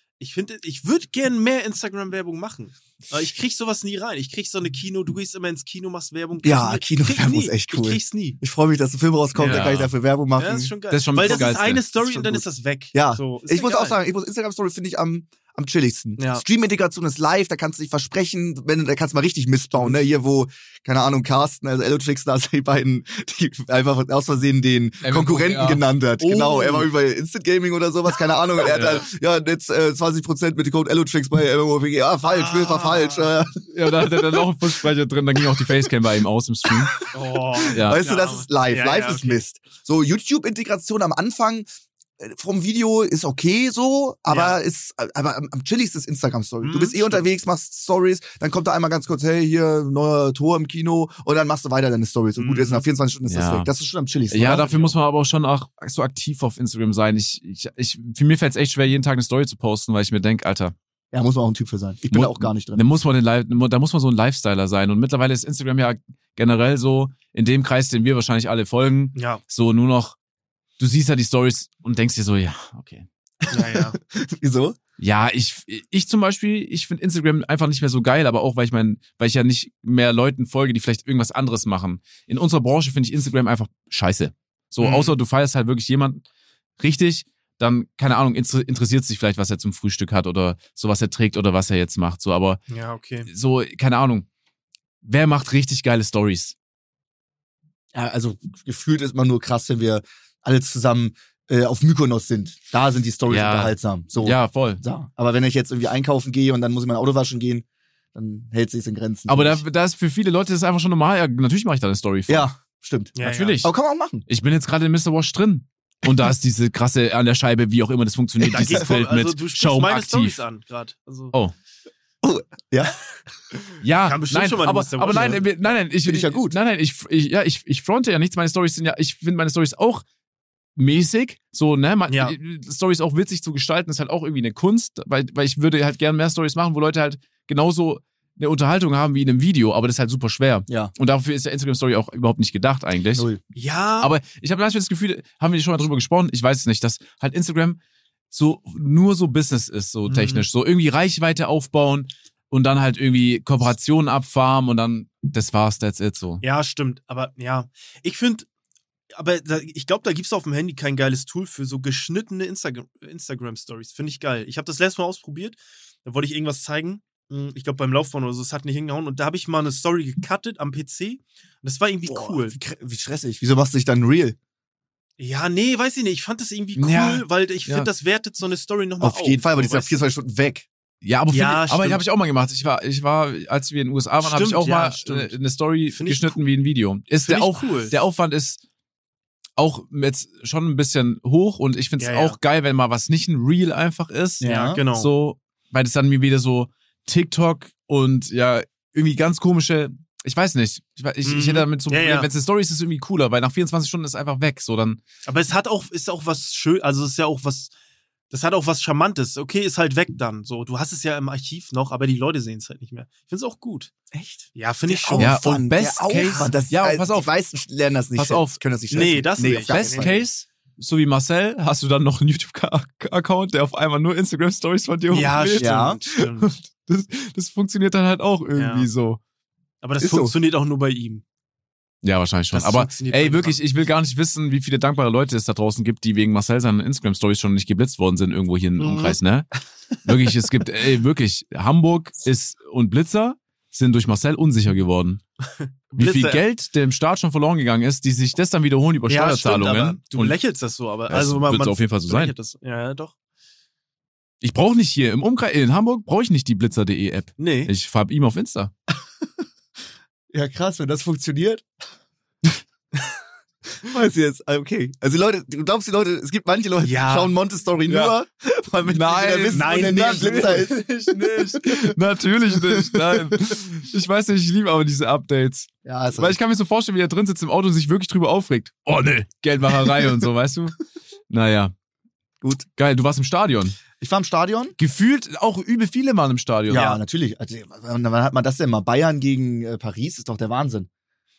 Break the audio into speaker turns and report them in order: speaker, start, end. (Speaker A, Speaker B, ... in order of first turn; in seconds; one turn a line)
Speaker A: 0.2-8.4
Speaker B: 6.4-34.9
Speaker A: 9.3-9.7
Speaker C: 9.4-9.9
Speaker A: 10.4-14.0
Speaker C: 10.9-11.8
Speaker A: 16.2-16.4
Speaker C: 25.0-25.9
Speaker A: 26.2-26.9
Speaker C: 28.6-29.1
Speaker A: 32.2-33.3
Speaker C: 33.7-37.0
Speaker B: 36.6-37.0
Speaker A: 37.1-39.4
Speaker B: 37.6-41.7
Speaker C: 37.7-38.0
Speaker B: 42.2-54.7
Speaker A: 44.3-44.6
Speaker A: 46.6-47.2
Speaker A: 52.4-52.8
Speaker C: 53.3-53.7
Speaker C: 54.3-60.7
Speaker A: 54.5-55.0
Speaker B: 61.1-62.8
Speaker C: 62.1-70.2
Speaker A: 69.2-69.4
Speaker C: 70.8-73.1
Speaker B: 73.4-74.8
Speaker A: 73.5-74.0
Speaker C: 75.0-86.2
Speaker A: 84.8-85.1
Speaker C: 86.8-92.6
Speaker A: 92.7-93.3
Speaker C: 93.3-94.3
Speaker C: 95.0-96.5
Speaker B: 97.9-109.6
Speaker C: 103.3-104.8
Speaker C: 109.3-112.5
Speaker B: 112.3-114.3
Speaker A: 113.2-113.6
Speaker C: 113.2-113.7
Speaker C: 114.3-120.4
Speaker B: 118.5-118.9
Speaker A: 118.5-121.3
Speaker B: 122.2-123.0
Speaker C: 123.8-130.0
Speaker A: 124.0-125.5
Speaker B: 126.0-126.6
Speaker C: 130.8-143.3
Speaker A: 132.1-132.4
Speaker B: 143.2-143.4
Speaker A: 143.6-144.1
Speaker C: 144.0-147.8
Speaker C: 148.3-156.4
Speaker A: 150.1-150.5
Speaker A: 156.4-158.5
Speaker A: 159.1-172.6
Speaker B: 172.1-174.4
Speaker A: 175.2-180.0
Speaker C: 176.8-177.9
Speaker B: 179.0-180.7
Speaker C: 181.0-188.6
Speaker A: 181.3-182.0
Speaker A: 184.2-185.4
Speaker A: 185.9-186.4
Speaker A: 187.2-188.0
Speaker C: 189.6-205.0
Speaker A: 192.0-192.4
Speaker B: 194.4-194.8
Speaker A: 194.4-195.1
Speaker A: 201.2-202.3
Speaker A: 205.3-207.7
Speaker A: 208.3-213.9
Speaker B: 214.1-220.2
Speaker A: 214.6-215.4
Speaker C: 215.2-217.3
Speaker A: 216.2-216.5
Speaker C: 218.2-218.6
Speaker A: 218.9-220.2
Speaker C: 219.4-229.2
Speaker A: 225.1-226.6
Speaker B: 225.6-226.0
Speaker A: 228.6-228.9
Speaker A: 229.8-231.2
Speaker B: 230.0-230.3
Speaker C: 232.0-239.5
Speaker A: 232.5-233.6
Speaker A: 238.8-239.2
Speaker C: 240.0-245.2
Speaker A: 245.5-246.4
Speaker C: 245.9-250.4
Speaker A: 249.1-253.1
Speaker C: 251.1-252.3
Speaker C: 254.4-258.7
Speaker A: 257.4-257.7
Speaker B: 260.3-261.6
Speaker B: 263.8-271.9
Speaker A: 266.8-267.3
Speaker A: 267.9-268.1
Speaker C: 268.9-280.8
Speaker A: 269.5-270.7
Speaker B: 272.5-273.6
Speaker B: 275.9-276.4
Speaker C: 281.3-281.7
Speaker C: 282.8-283.8
Speaker B: 284.0-284.8
Speaker C: 284.8-286.9
Speaker B: 286.7-290.9
Speaker A: 286.7-287.0